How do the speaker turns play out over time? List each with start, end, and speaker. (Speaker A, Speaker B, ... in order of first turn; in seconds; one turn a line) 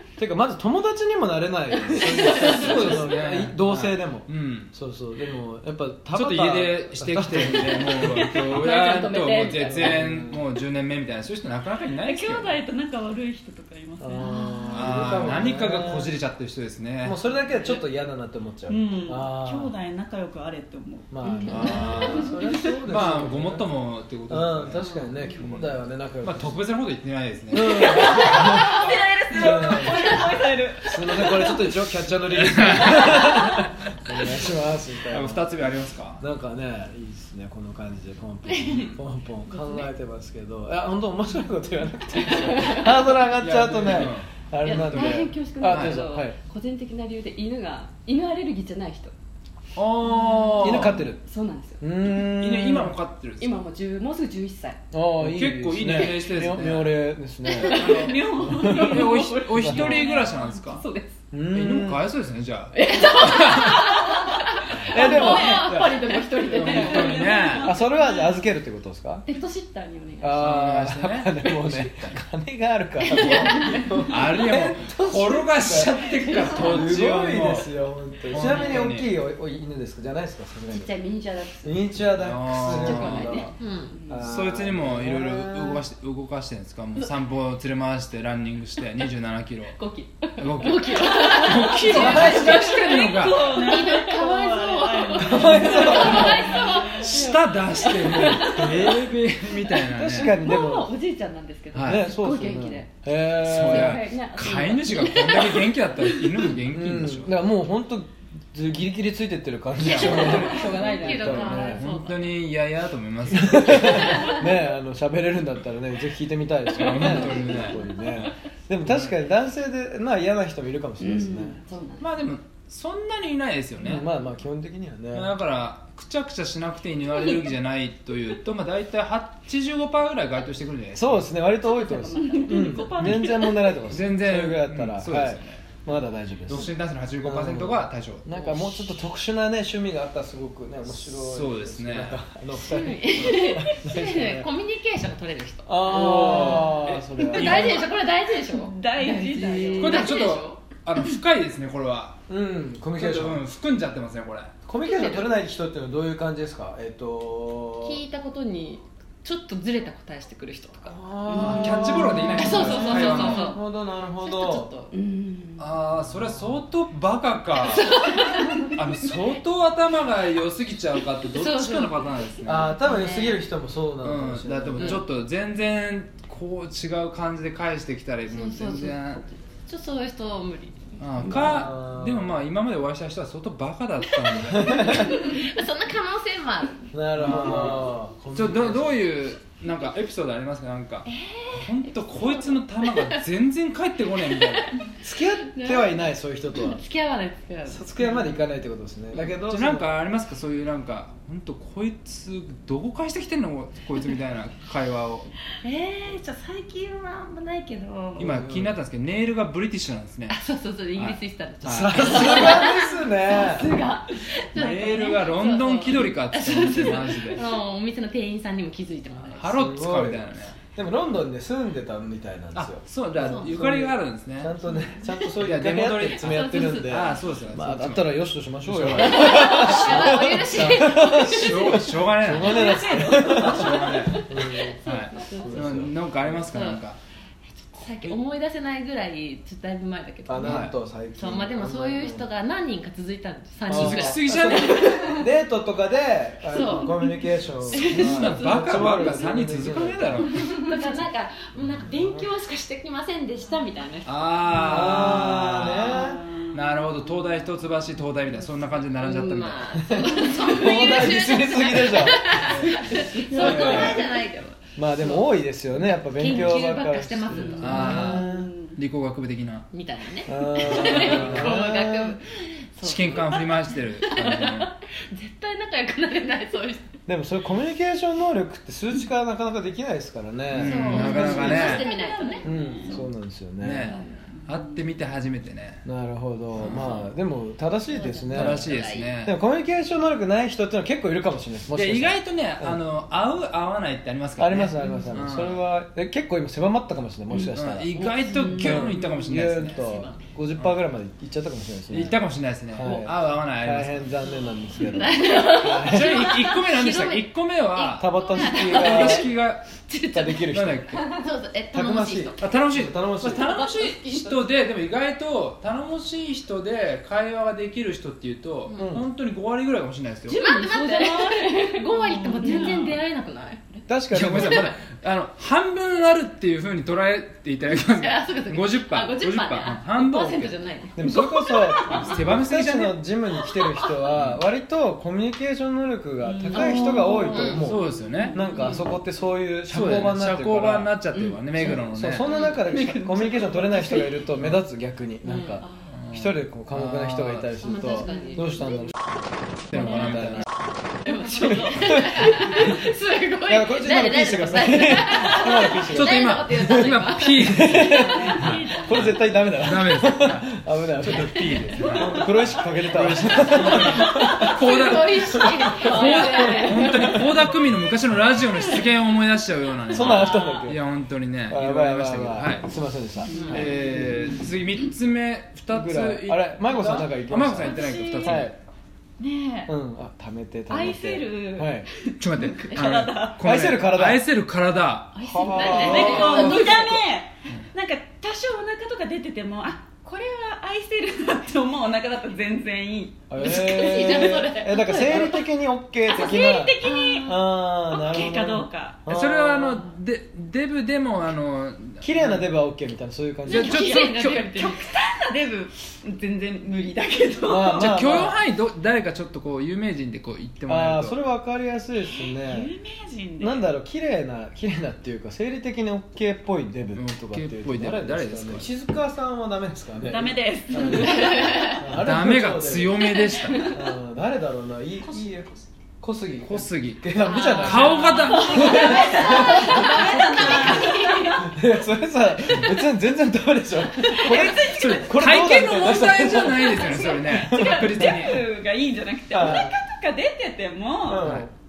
Speaker A: 0.2-8.2
Speaker B: 1.9-3.1
Speaker C: 2.2-4.7
Speaker C: 6.1-12.6
Speaker B: 7.5-10.1
Speaker A: 9.8-10.4
Speaker D: 12.0-14.6
Speaker A: 14.0-16.1
Speaker B: 14.2-15.3
Speaker C: 14.7-17.2
Speaker A: 17.0-19.7
Speaker D: 18.7-22.7
Speaker A: 21.1-23.7
Speaker B: 21.2-22.6
Speaker C: 21.5-29.0
Speaker A: 24.3-26.6
Speaker A: 27.5-35.5
Speaker D: 27.5-31.8
Speaker C: 32.3-33.6
Speaker C: 35.1-36.2
Speaker A: 36.2-46.4
Speaker B: 42.2-43.1
Speaker C: 43.4-46.1
Speaker B: 44.6-49.1
Speaker C: 49.7-51.0
Speaker B: 50.3-51.8
Speaker A: 50.6-51.2
Speaker A: 51.8-53.0
Speaker C: 52.1-53.6
Speaker B: 53.4-54.8
Speaker A: 54.9-58.9
Speaker C: 55.2-57.0
Speaker B: 57.4-61.2
Speaker D: 57.6-60.6
Speaker C: 57.7-60.9
Speaker A: 59.5-60.0
Speaker A: 61.3-62.1
Speaker C: 61.4-64.1
Speaker B: 62.7-67.4
Speaker A: 64.8-65.9
Speaker C: 64.8-67.8
Speaker D: 64.9-68.5
Speaker A: 67.6-69.2
Speaker B: 69.3-70.5
Speaker A: 70.2-80.9
Speaker C: 70.3-72.2
Speaker B: 73.0-74.1
Speaker C: 74.0-77.7
Speaker B: 76.3-76.6
Speaker C: 78.3-79.1
Speaker B: 78.4-78.7
Speaker B: 80.7-82.0
Speaker A: 81.6-83.5
Speaker C: 82.1-83.4
Speaker B: 82.6-84.2
Speaker E: 83.6-84.0
Speaker A: 84.1-85.8
Speaker C: 84.2-89.8
Speaker E: 89.8-92.9
Speaker C: 90.4-93.5
Speaker B: 91.0-93.1
Speaker A: 91.9-92.5
Speaker D: 92.1-97.2
Speaker E: 93.5-97.3
Speaker A: 95.2-96.5
Speaker B: 95.4-102.9
Speaker C: 95.9-96.5
Speaker C: 97.0-100.5
Speaker A: 98.5-99.2
Speaker A: 99.9-100.9
Speaker C: 101.7-102.1
Speaker A: 101.8-104.0
Speaker C: 103.4-107.3
Speaker B: 103.5-105.8
Speaker A: 106.7-111.8
Speaker C: 109.8-114.4
Speaker B: 109.9-111.6
Speaker E: 109.9-112.4
Speaker A: 113.3-121.6
Speaker C: 116.7-117.8
Speaker B: 117.0-118.0
Speaker C: 118.8-119.2
Speaker B: 121.0-122.1
Speaker C: 122.0-124.1
Speaker A: 123.8-125.3
Speaker C: 125.1-131.3
Speaker A: 130.9-136.7
Speaker B: 131.5-133.7
Speaker D: 132.2-133.8
Speaker C: 133.8-135.7
Speaker C: 136.5-138.7
Speaker A: 137.2-144.5
Speaker C: 141.2-142.2
Speaker E: 142.5-150.6
Speaker A: 145.7-147.8
Speaker B: 145.9-147.8
Speaker C: 145.9-146.7
Speaker C: 147.4-147.9
Speaker B: 148.3-150.1
Speaker D: 148.5-150.1
Speaker C: 149.8-152.2
Speaker A: 152.3-153.4
Speaker C: 152.9-154.6
Speaker A: 154.6-158.0
Speaker B: 154.8-155.2
Speaker E: 157.8-163.6
Speaker A: 160.8-164.7
Speaker C: 161.3-163.6
Speaker B: 161.4-163.5
Speaker E: 164.2-164.9
Speaker B: 164.9-165.6
Speaker C: 165.6-172.8
Speaker E: 167.9-168.6
Speaker E: 171.3-172.1
Speaker A: 172.4-175.1
Speaker E: 172.6-173.4
Speaker C: 174.0-179.2
Speaker E: 178.3-181.2
Speaker C: 181.0-185.2
Speaker A: 181.2-182.3
Speaker E: 184.6-187.4
Speaker A: 184.7-185.0
Speaker A: 186.9-189.0
Speaker C: 187.2-194.8
Speaker E: 191.1-193.2
Speaker A: 195.0-196.8
Speaker E: 195.5-198.3
Speaker A: 197.7-199.9
Speaker C: 199.5-205.3
Speaker E: 205.6-208.4
Speaker C: 208.2-210.4
Speaker A: 208.2-208.8
Speaker E: 210.3-219.5
Speaker C: 210.9-212.6
Speaker A: 211.6-213.7
Speaker B: 212.3-212.6
Speaker B: 213.3-215.6
Speaker C: 214.5-217.4
Speaker C: 219.3-220.6
Speaker A: 219.5-236.5
Speaker C: 222.5-224.5
Speaker E: 223.2-223.5
Speaker C: 225.4-234.3
Speaker E: 226.2-227.1
Speaker E: 228.9-231.8
Speaker D: 232.3-234.1
Speaker B: 232.8-233.8
Speaker E: 234.1-235.5
Speaker C: 234.8-237.0
Speaker E: 236.5-236.8
Speaker E: 237.7-245.2
Speaker A: 240.3-242.3
Speaker C: 240.4-240.8
Speaker C: 243.7-245.2
Speaker A: 243.7-250.3
Speaker E: 246.5-248.4
Speaker C: 247.7-250.7
Speaker B: 248.1-248.3
Speaker E: 250.3-254.3
Speaker A: 251.9-252.2
Speaker C: 254.0-260.0
Speaker A: 254.5-256.2
Speaker D: 254.9-256.6
Speaker E: 258.9-265.2
Speaker A: 259.8-262.4
Speaker C: 262.3-262.8
Speaker B: 262.9-263.5
Speaker D: 263.3-264.0
Speaker C: 263.3-264.0
Speaker A: 263.4-264.0
Speaker A: 264.8-268.5
Speaker E: 266.0-268.1
Speaker C: 266.3-266.6
Speaker C: 267.6-269.7
Speaker D: 267.7-268.8
Speaker E: 269.7-276.9
Speaker A: 270.2-272.2
Speaker C: 270.7-271.6
Speaker C: 272.8-274.7
Speaker A: 277.1-281.9
Speaker C: 280.5-281.9
Speaker E: 280.5-282.5
Speaker B: 280.9-281.9
Speaker D: 280.9-283.1
Speaker A: 282.4-283.9
Speaker C: 283.6-285.8
Speaker A: 285.8-288.7
Speaker C: 286.6-286.9
Speaker E: 286.6-287.0
Speaker E: 287.9-289.1
Speaker C: 288.3-289.3
Speaker A: 289.2-292.8
Speaker C: 291.7-295.6
Speaker A: 294.4-302.2
Speaker C: 297.5-299.8
Speaker E: 298.0-300.2
Speaker B: 298.3-298.7
Speaker D: 298.3-298.7
Speaker C: 301.9-304.1
Speaker A: 302.7-306.3
Speaker E: 304.7-312.5
Speaker C: 305.8-309.9
Speaker A: 307.9-309.3
Speaker A: 310.1-310.9
Speaker C: 310.4-311.0
Speaker A: 311.7-313.7
Speaker C: 312.4-320.4
Speaker E: 313.5-314.4
Speaker E: 318.7-319.0
Speaker A: 318.8-319.1
Speaker E: 320.2-323.6
Speaker B: 320.3-323.0
Speaker D: 320.7-321.5
Speaker D: 322.1-323.0
Speaker A: 323.9-324.8
Speaker C: 324.1-330.7
Speaker E: 327.7-332.1
Speaker A: 330.9-340.9
Speaker C: 332.0-333.0
Speaker C: 334.1-334.4
Speaker D: 336.2-337.4
Speaker B: 336.5-338.8
Speaker E: 336.6-337.7
Speaker C: 337.5-338.4
Speaker E: 338.5-338.8
Speaker C: 339.7-342.2
Speaker A: 341.6-348.9
Speaker B: 342.3-344.2
Speaker E: 345.3-345.7
Speaker C: 346.0-347.6
Speaker E: 347.6-348.9
Speaker C: 349.7-350.5
Speaker A: 349.7-350.5
Speaker E: 351.0-358.4
Speaker A: 351.3-352.9
Speaker A: 353.4-367.4
Speaker C: 355.9-372.7
Speaker D: 357.9-359.2
Speaker E: 363.9-367.3
Speaker B: 365.6-367.2
Speaker A: 369.9-370.8
Speaker B: 370.1-370.6
Speaker A: 371.5-374.0
Speaker E: 373.3-373.6
Speaker C: 373.4-378.6
Speaker A: 375.7-378.5
Speaker D: 377.6-378.5
Speaker D: 379.2-379.7
Speaker A: 379.7-381.9
Speaker D: 380.7-383.4
Speaker C: 382.2-386.9
Speaker A: 383.4-384.2
Speaker A: 385.2-386.5
Speaker B: 385.2-387.0
Speaker E: 385.3-386.7
Speaker D: 385.6-394.0
Speaker A: 393.3-399.8
Speaker B: 393.4-395.4
Speaker E: 393.4-395.4
Speaker D: 396.0-399.0
Speaker B: 396.9-397.2
Speaker C: 399.1-402.4
Speaker A: 402.0-403.9
Speaker B: 403.4-404.9
Speaker C: 403.5-404.7
Speaker D: 403.7-408.2
Speaker E: 403.8-404.4
Speaker A: 407.4-408.4
Speaker C: 407.7-411.2
Speaker A: 410.7-412.7
Speaker D: 412.1-413.7
Speaker A: 413.4-430.9
Speaker C: 416.9-418.7
Speaker D: 420.0-421.8
Speaker E: 421.2-421.7
Speaker C: 421.9-423.7
Speaker B: 423.4-423.7
Speaker C: 426.4-428.8
Speaker D: 427.2-431.6
Speaker B: 427.3-431.1
Speaker E: 428.2-431.3
Speaker C: 430.0-430.9
Speaker A: 431.4-438.3
Speaker D: 434.0-441.3
Speaker C: 434.3-438.4
Speaker A: 439.3-439.7
Speaker A: 441.1-441.5
Speaker C: 441.2-441.4